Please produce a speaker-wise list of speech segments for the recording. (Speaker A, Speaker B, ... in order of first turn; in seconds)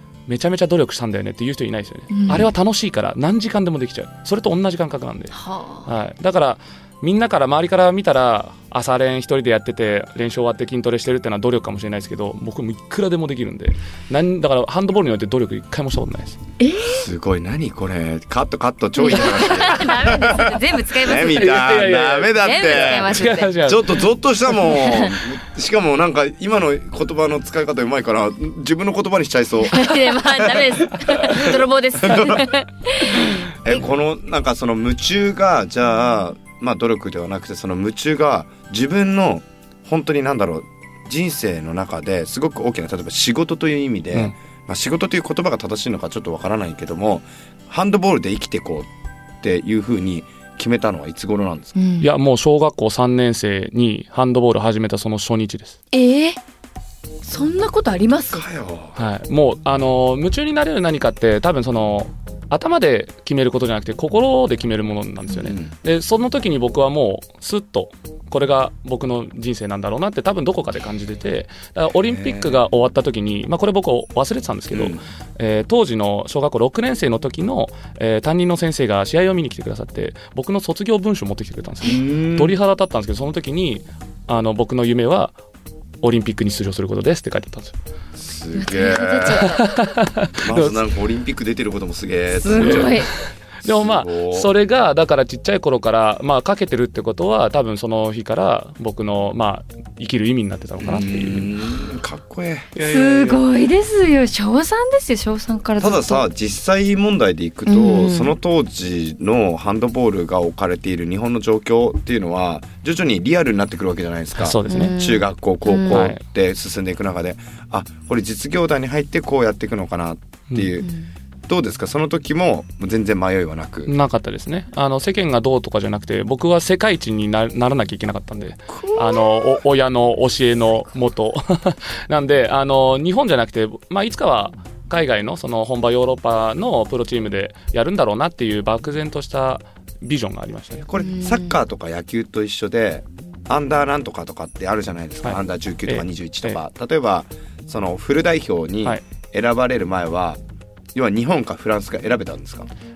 Speaker A: 0.3-16.4, 21.2-24.1, 52.0-55.8, 59.0-85.3, 86.0-87.7, 89.4-90.8, 92.6-93.1, 93.6-101.5, 102.7-103.4, 114.3-114.9, 115.9-116.2, 123.9-140.9, 145.2-146.6
Speaker B: 2.1-2.5, 5.3-5.9, 16.6-17.1, 19.0-21.7, 22.3-23.5, 24.6-25.1, 29.6-33.5, 51.8-52.1, 55.9-56.4, 57.2-58.5, 88.5-89.8, 92.3-93.1, 102.8-106.2, 107.7-108.3, 114.7-116.1, 120.8-121.1, 128.8-129.4, 141.0-141.6
Speaker C: 16.9-32.5, 33.5-48.9, 49.4-51.7, 58.3-59.0, 65.4-65.7, 72.0-72.6, 74.7-75.0, 81.8-82.6, 88.2-89.6, 90.4-93.1, 93.6-94.5, 100.8-102.7, 105.8-120.9, 121.5-123.9, 140.9-150.4, 150.9-152.7